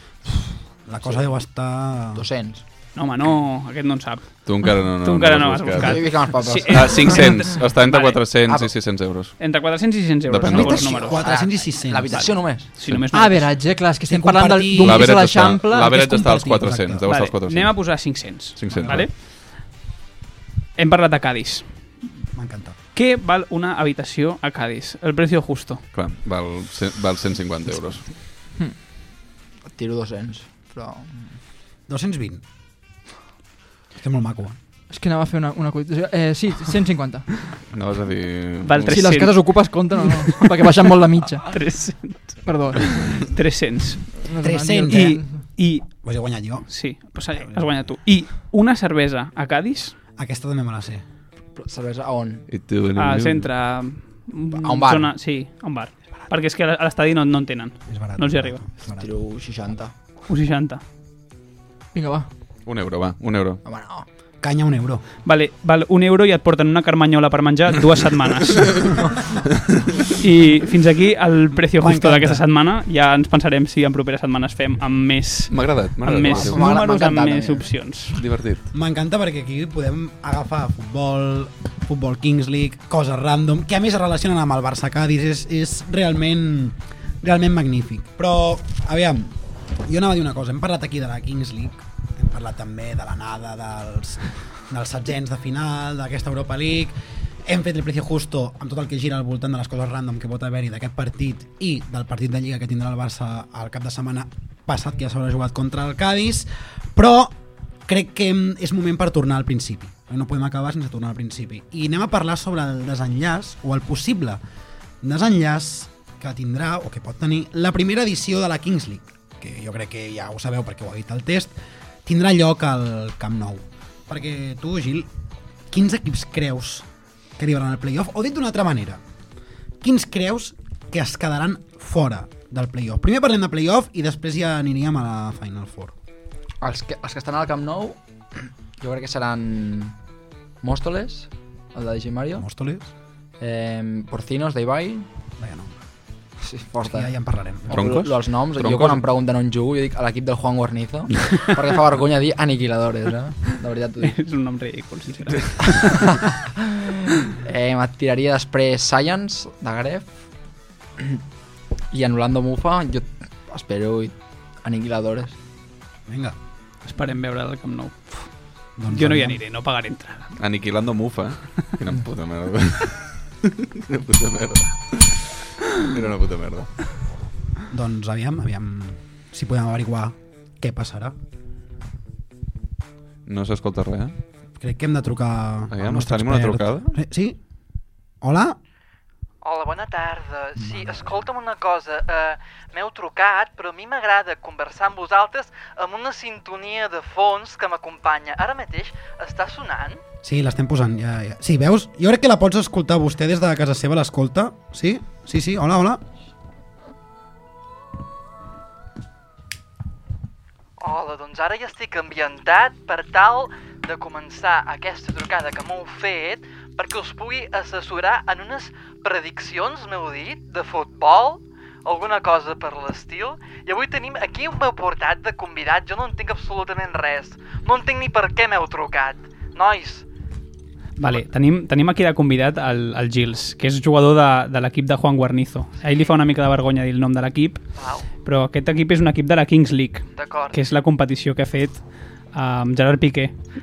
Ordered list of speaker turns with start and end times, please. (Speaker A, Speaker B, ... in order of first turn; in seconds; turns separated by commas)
Speaker A: 0.3-2.2, Speaker B: 2.1-2.6, Speaker C: 2.9-8.2, Speaker D: 4.4-9.4, Speaker B: 5.8-7.3, Speaker C: 9.4-11.2, Speaker D: 10.2-11.0, Speaker A: 10.5-12.3, Speaker B: 10.7-12.7, Speaker C: 12.1-13.6, Speaker E: 13.1-16.6, Speaker A: 14.1-15.3, Speaker D: 14.8-19.1, Speaker A: 15.9-17.1, Speaker C: 17.1-19.2, Speaker A: 18.7-19.1, Speaker C: 20.8-21.6, Speaker A: 22.3-22.7, Speaker C: 22.9-25.8, Speaker D: 25.9-28.1, Speaker B: 29.7-31.3, Speaker A: 31.9-32.4, Speaker A: 34.0-34.6, Speaker E: 34.9-37.4, Speaker D: 37.7-39.2, Speaker C: 38.6-39.5, Speaker E: 38.9-41.5, Speaker C: 41.5-44.2, Speaker E: 42.4-43.2, Speaker E: 44.2-45.4, Speaker A: 44.4-45.2, Speaker C: 44.9-45.9, Speaker A: 46.0-46.7, Speaker C: 46.7-49.9, Speaker A: 50.2-51.0, Speaker B: 51.5-52.5, Speaker D: 52.5-53.5, Speaker C: 53.0-58.6, Speaker B: 54.5-55.1, Speaker A: 57.9-59.1, Speaker B: 58.9-59.9, Speaker C: 60.3-60.8, Speaker E: 61.9-62.3, Speaker D: 62.6-63.6, Speaker B: 63.6-64.0, Speaker A: 64.4-65.0, Speaker C: 65.2-68.9, Speaker C: 70.2-78.2, Speaker A: 71.8-72.4, Speaker D: 75.5-76.7, Speaker B: 76.3-77.7, Speaker D: 78.1-78.6, Speaker A: 78.7-107.3, Speaker A: 107.8-114.4, Speaker A: 115.0-121.5, Speaker A: 122.0-125.1, Speaker A: 125.7-126.8, Speaker A: 127.4-129.0, Speaker A: 129.8-135.9, Speaker B: 136.6-138.0, Speaker B: 138.8-139.9, Speaker B: 140.6-142.4, Speaker A: 142.4-142.9, Speaker B: 143.4-145.1, Speaker A: 145.4-145.7, Speaker B: 146.4-147.1, Speaker A: 146.8-147.9, Speaker B: 147.7-154.2, Speaker D: 147.7-149.0, Speaker C: 154.0-156.2, Speaker B: 157.2-160.2, Speaker B: 161.9-165.3, Speaker A: 166.1-166.3, Speaker C: 166.8-168.2, Speaker A: 168.8-169.4, Speaker C: 168.9-170.3, Speaker D: 170.4-175.3, Speaker D: 175.8-176.7, Speaker A: 177.7-181.1, Speaker D: 183.2-184.1, Speaker A: 184.6-187.4, Speaker D: 185.7-186.9, Speaker A: 188.2-188.6, Speaker F: 189.4-200.0, Speaker A: 190.6-191.3, Speaker A: 200.2-206.0, Speaker F: 210.8-230.0, Speaker C: 231.0-237.6, Speaker F: 235.8-236.2, Speaker F: 237.8-238.1, Speaker C: 238.2-241.8, Speaker F: 240.1-240.6, Speaker C: 242.3-243.3